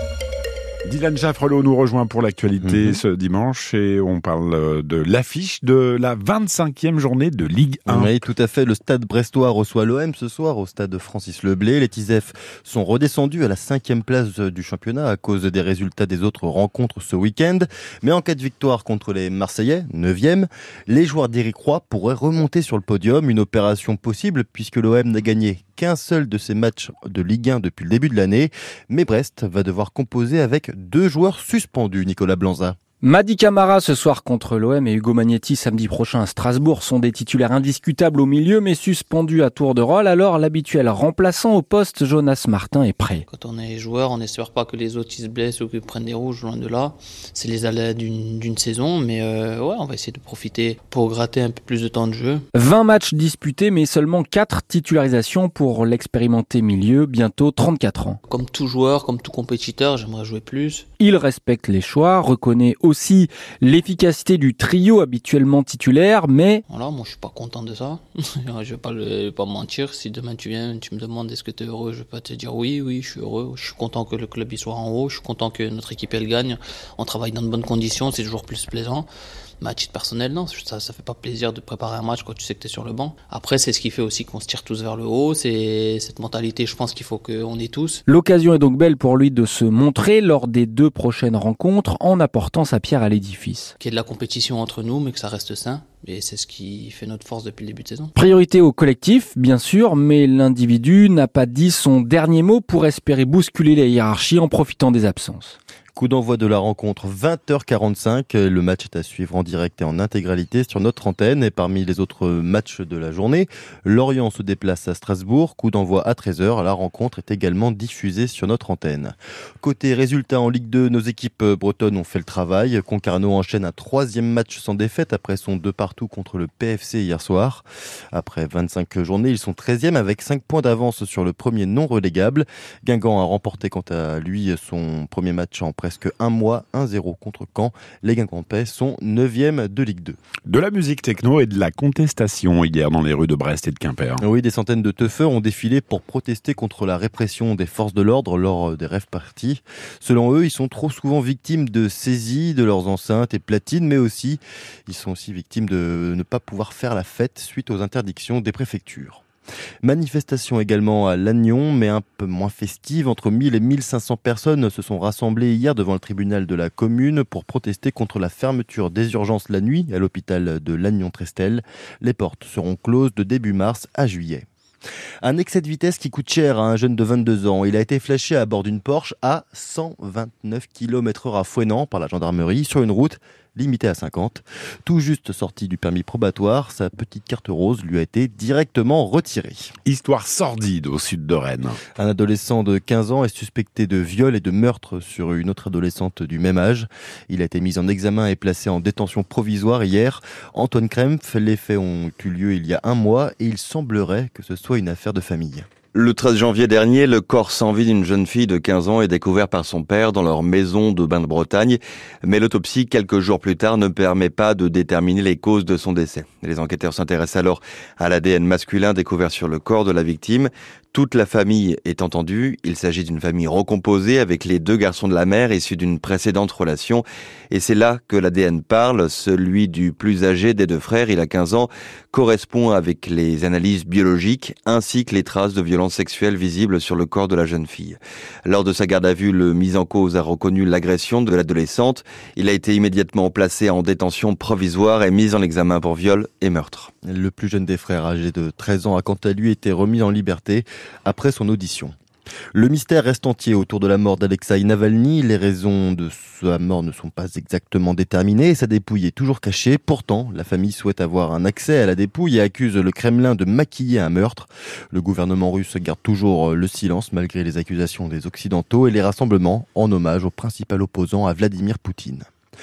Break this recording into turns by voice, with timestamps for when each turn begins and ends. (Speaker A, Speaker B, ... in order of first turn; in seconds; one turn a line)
Speaker A: 0.8-8.1
Speaker B: 2.6-3.0
Speaker B: 7.8-32.8
Speaker C: 33.0-43.2
Speaker D: 43.3-52.4
Speaker C: 52.5-58.2
Speaker D: 58.3-60.9
Speaker C: 61.0-66.6
Speaker D: 66.7-79.1
Speaker D: 79.6-88.0
Speaker C: 88.0-93.7
Speaker D: 93.8-98.1
Speaker C: 98.1-105.6
Speaker B: 105.9-140.2
Speaker A: 140.5-144.2
Speaker B: 144.2-159.2
Speaker B: 159.8-174.4
Speaker B: 175.2-189.7
Speaker A: 189.8-191.8
Speaker B: 192.0-205.7
Speaker E: 205.9-246.9
Speaker B: 247.0-251.9
Speaker B: 252.5-272.2